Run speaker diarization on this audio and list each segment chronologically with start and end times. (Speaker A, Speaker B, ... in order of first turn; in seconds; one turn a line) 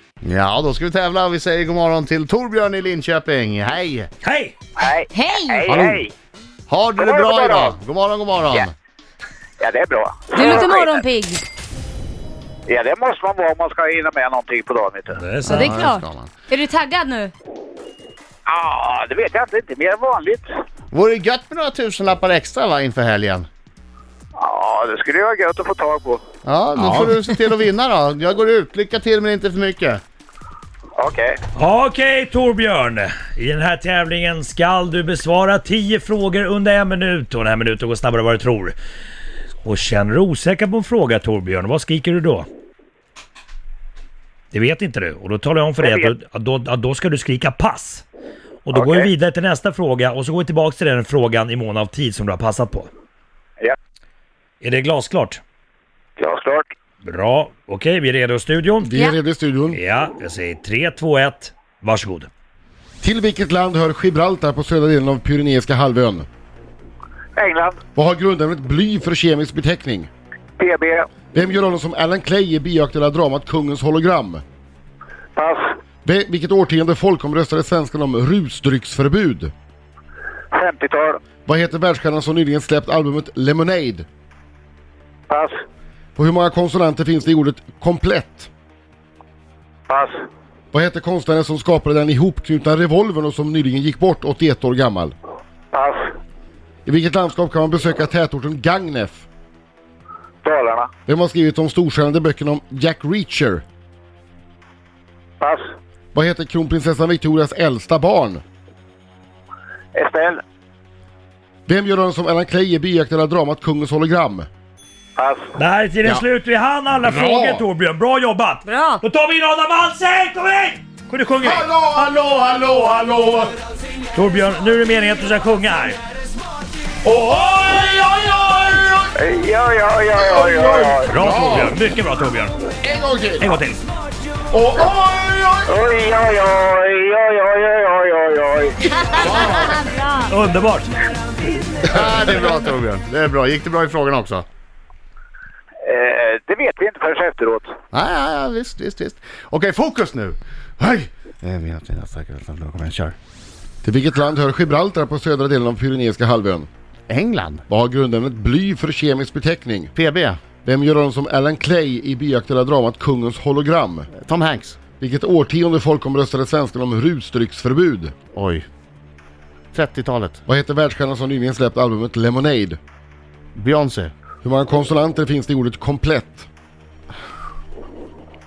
Speaker A: 0.2-4.1
Speaker B: 4.2-4.5
Speaker C: 4.8-6.1
Speaker D: 5.1-5.8
Speaker A: 5.7-6.0
Speaker A: 6.7-8.7
Speaker C: 7.0-7.8
Speaker C: 9.6-11.0
Speaker D: 10.3-11.4
Speaker C: 12.7-15.2
Speaker B: 15.1-15.8
Speaker D: 15.4-17.3
Speaker A: 15.5-16.3
Speaker C: 18.5-20.5
Speaker A: 20.9-23.5
Speaker C: 24.4-26.2
Speaker A: 26.4-30.0
Speaker B: 26.8-27.1
Speaker C: 31.0-31.4
Speaker B: 31.6-38.7
Speaker B: 39.6-42.5
Speaker B: 44.5-48.0
Speaker C: 45.8-46.1
Speaker B: 48.6-52.9
Speaker C: 48.7-49.1
Speaker B: 54.6-55.4
Speaker C: 56.2-56.7
Speaker B: 57.0-58.9
Speaker E: 58.8-59.8
Speaker B: 59.7-62.3
Speaker E: 63.0-66.2
Speaker C: 67.3-67.8
Speaker E: 67.9-70.1
Speaker C: 70.6-71.1
Speaker E: 71.3-74.4
Speaker C: 75.3-75.7
Speaker E: 76.0-79.5
Speaker C: 80.5-81.2
Speaker E: 81.4-84.1
Speaker C: 85.3-85.6
Speaker E: 86.2-88.5
Speaker C: 89.9-90.2
Speaker E: 90.7-95.1
Speaker C: 95.7-96.1
Speaker E: 96.8-99.2
Speaker C: 100.4-100.9
Speaker E: 101.1-103.6
Speaker C: 105.4-105.7
Speaker E: 106.1-108.4
Speaker C: 109.9-110.4
Speaker E: 111.7-114.5
Speaker C: 115.2-115.5
Speaker B: 115.6-121.7
Speaker E: 117.0-117.6
Speaker D: 118.7-119.0
Speaker E: 121.4-123.5
Speaker B: 124.1-126.0
Speaker E: 127.0-129.1
Speaker C: 129.2-131.1
Speaker E: 130.1-131.8
Speaker B: 131.1-132.6
Speaker E: 132.8-133.5
Speaker B: 133.4-133.8
Speaker E: 134.5-135.8
Speaker C: 135.7-138.9
Speaker D: 139.1-140.2
Speaker A: 139.1-139.6
Speaker E: 139.3-139.7
Speaker B: 140.3-140.9
Speaker E: 141.8-142.7
Speaker A: 141.8-144.4
Speaker C: 145.8-147.7
Speaker A: 147.9-153.1
Speaker E: 153.8-156.7
Speaker A: 157.1-157.6
Speaker E: 157.7-159.9
Speaker A: 159.9-160.4
Speaker E: 160.6-164.1
Speaker A: 164.1-164.8
Speaker E: 165.0-168.1
Speaker A: 168.3-168.6
Speaker A: 169.7-170.4
Speaker E: 170.5-172.8
Speaker A: 173.6-174.1
Speaker E: 174.4-176.5